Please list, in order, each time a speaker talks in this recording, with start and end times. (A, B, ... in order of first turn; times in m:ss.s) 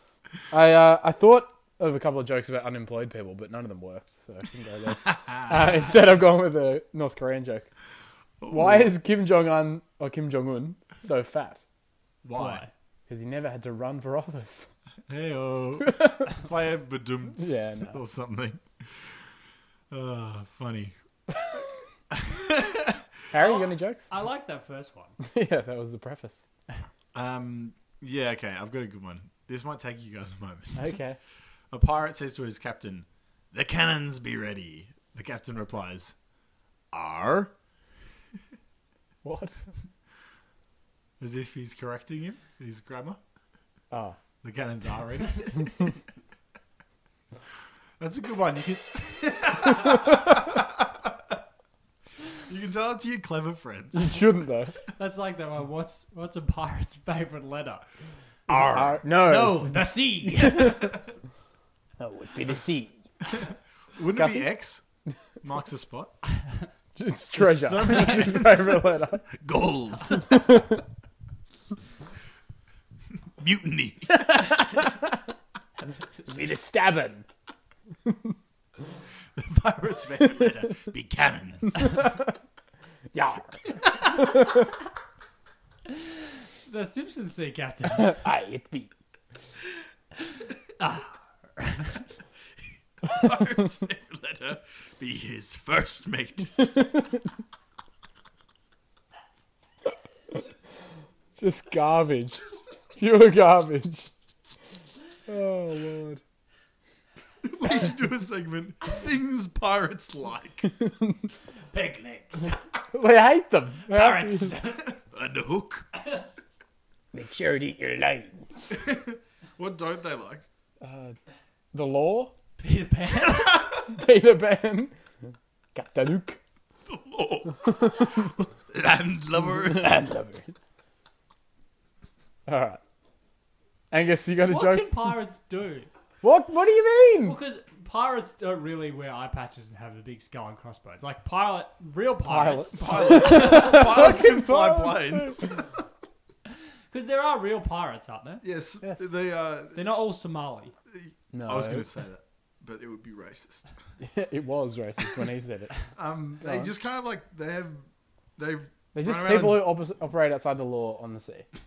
0:00.5-0:07.7 A
0:05.0-0:05.8 B
0:08.4-0:09.0 B
0:08.5-0:11.6 A
0:12.2-0:12.6 B
0:12.3-0:12.7 C
0:13.1-0:14.7 A
0:15.1-0:19.2 B
0:15.8-0:16.3 A
0:17.4-0:18.0 A
0:19.9-0:20.9 B
0:21.3-0:21.6 A
0:22.1-0:23.0 B
0:23.3-0:24.1 A
0:23.3-0:25.1 C
0:25.2-0:26.4 A
0:27.1-0:31.0 B
0:30.8-0:31.2 A
0:31.7-0:36.1 B
0:36.9-0:37.5 B
0:39.2-0:39.6 A
0:41.2-0:43.2 B
0:43.9-0:44.2 A
0:44.4-0:45.7 B
0:48.0-0:51.1 B
0:52.3-0:54.2 B
0:53.9-0:54.8 A
0:55.0-0:57.8 C
0:58.5-0:59.0 B
0:58.5-1:01.0 A
0:58.5-1:01.0 C
1:02.0-1:03.4 A
1:03.3-1:04.8 B
1:04.1-1:04.5 A
1:05.4-1:06.1 B
1:07.0-1:09.3 A
1:07.4-1:10.3 B
1:07.8-1:08.4 C
1:10.3-1:10.8 A
1:13.4-1:14.4 B
1:14.1-1:15.2 A
1:16.2-1:17.2 A
1:18.0-1:18.3 A
1:19.3-1:21.9 B
1:21.8-1:22.2 A
1:23.1-1:24.5 A
1:25.9-1:28.2 C
1:27.9-1:28.9 A
1:30.8-1:32.0 C
1:33.0-1:36.5 B
1:36.6-1:37.2 A
1:41.3-1:44.1 A
1:45.3-1:46.2 A
1:47.4-1:50.7 B
1:50.6-1:51.3 A
1:51.7-1:52.6 C
1:52.9-1:54.6 A
1:53.9-1:54.9 C
1:55.0-1:55.9 B
1:57.1-1:58.8 A
1:58.7-2:00.4 B
2:00.8-2:01.2 A
2:01.7-2:02.3 A
2:02.6-2:03.7 C
2:03.8-2:04.9 A
2:05.7-2:06.4 A
2:06.9-2:10.0 B
2:07.6-2:08.3 A
2:09.4-2:10.5 A
2:12.5-2:12.8 A
2:13.9-2:15.1 A
2:14.4-2:15.9 C
2:16.2-2:17.4 A
2:17.2-2:23.9 C
2:22.2-2:25.6 A
2:22.8-2:25.7 B
2:26.9-2:28.4 C
2:28.4-2:29.9 B
2:29.7-2:30.7 C
2:30.9-2:33.8 B
2:31.3-2:31.8 A
2:34.0-2:35.8 A
2:35.9-2:39.7 B
2:36.4-2:36.7 A
2:38.9-2:41.4 A